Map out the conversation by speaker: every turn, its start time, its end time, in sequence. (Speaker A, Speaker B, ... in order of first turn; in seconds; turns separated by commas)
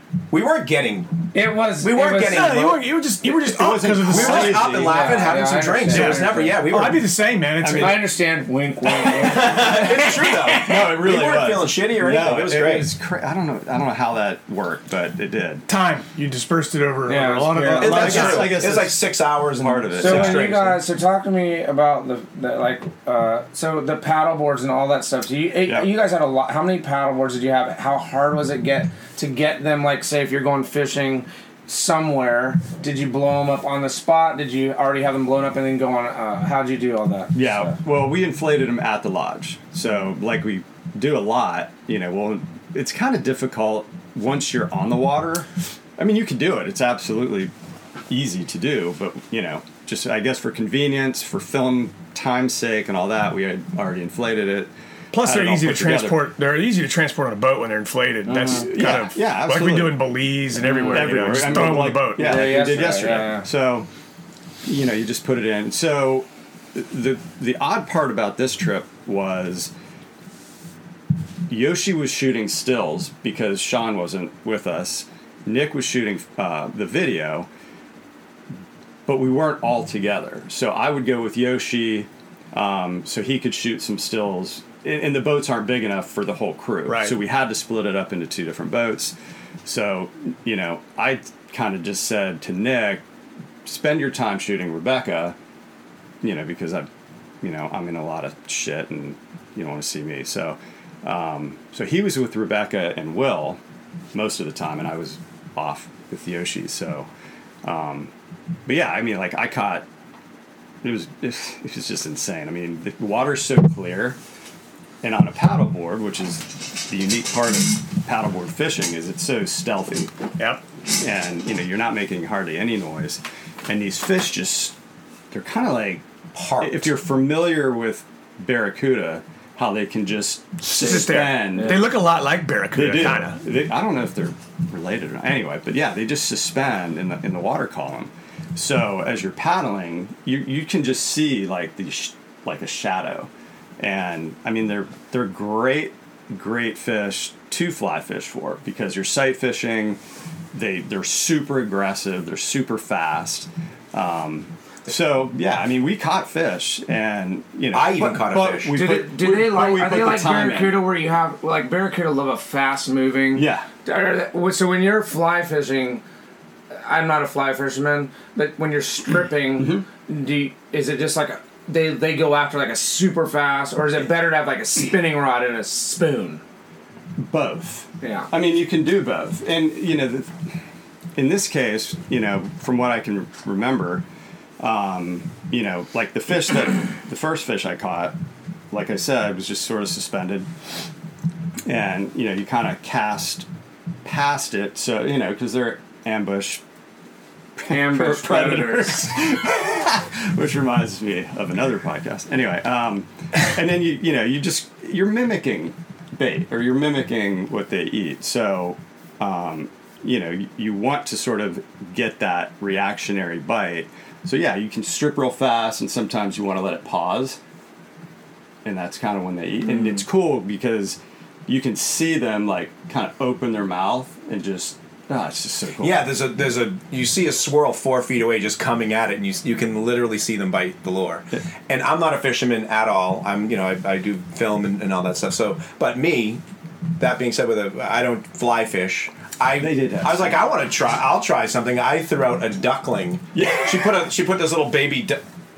Speaker A: 0.3-2.9, Speaker B: 1.3-2.5, Speaker C: 2.2-4.7, Speaker D: 3.2-5.3, Speaker A: 4.0-7.1, Speaker B: 4.6-6.7, Speaker C: 5.9-8.1, Speaker D: 7.6-8.1, Speaker B: 7.7-10.3, Speaker D: 9.0-15.7, Speaker A: 9.2-12.9, Speaker C: 15.7-18.6, Speaker B: 17.1-18.4, Speaker D: 17.6-20.5, Speaker A: 17.8-20.8, Speaker B: 20.0-37.8, Speaker D: 37.3-45.5, Speaker D: 46.0-47.5, Speaker D: 48.1-56.3, Speaker C: 55.1-62.9, Speaker B: 58.3-58.6, Speaker D: 58.3-63.9, Speaker B: 60.6-63.5, Speaker D: 64.6-69.7, Speaker D: 71.5-77.5, Speaker D: 79.1-89.1, Speaker C: 86.9-87.1, Speaker D: 89.7-93.0, Speaker D: 93.6-95.3, Speaker D: 96.2-96.9, Speaker D: 97.4-103.6, Speaker D: 104.1-107.1, Speaker D: 107.6-108.1, Speaker D: 108.7-109.8, Speaker D: 110.8-114.2, Speaker D: 115.0-120.1, Speaker D: 121.0-124.7, Speaker D: 125.3-126.0, Speaker A: 126.3-126.9, Speaker D: 126.5-131.9, Speaker C: 130.6-133.4, Speaker B: 130.8-131.9, Speaker D: 132.7-150.0, Speaker D: 150.5-160.8, Speaker A: 157.7-158.8, Speaker B: 158.7-166.0, Speaker D: 163.3-163.7, Speaker B: 166.7-176.4, Speaker D: 169.6-169.8, Speaker D: 177.2-180.3, Speaker B: 178.0-178.3, Speaker D: 181.2-184.0, Speaker D: 184.6-188.2, Speaker D: 188.7-190.5, Speaker D: 191.7-193.4, Speaker D: 194.0-196.6, Speaker D: 197.6-217.4, Speaker B: 197.7-199.2, Speaker D: 218.6-226.1, Speaker A: 225.8-236.4, Speaker A: 237.0-245.2, Speaker D: 239.5-240.4, Speaker D: 243.3-243.9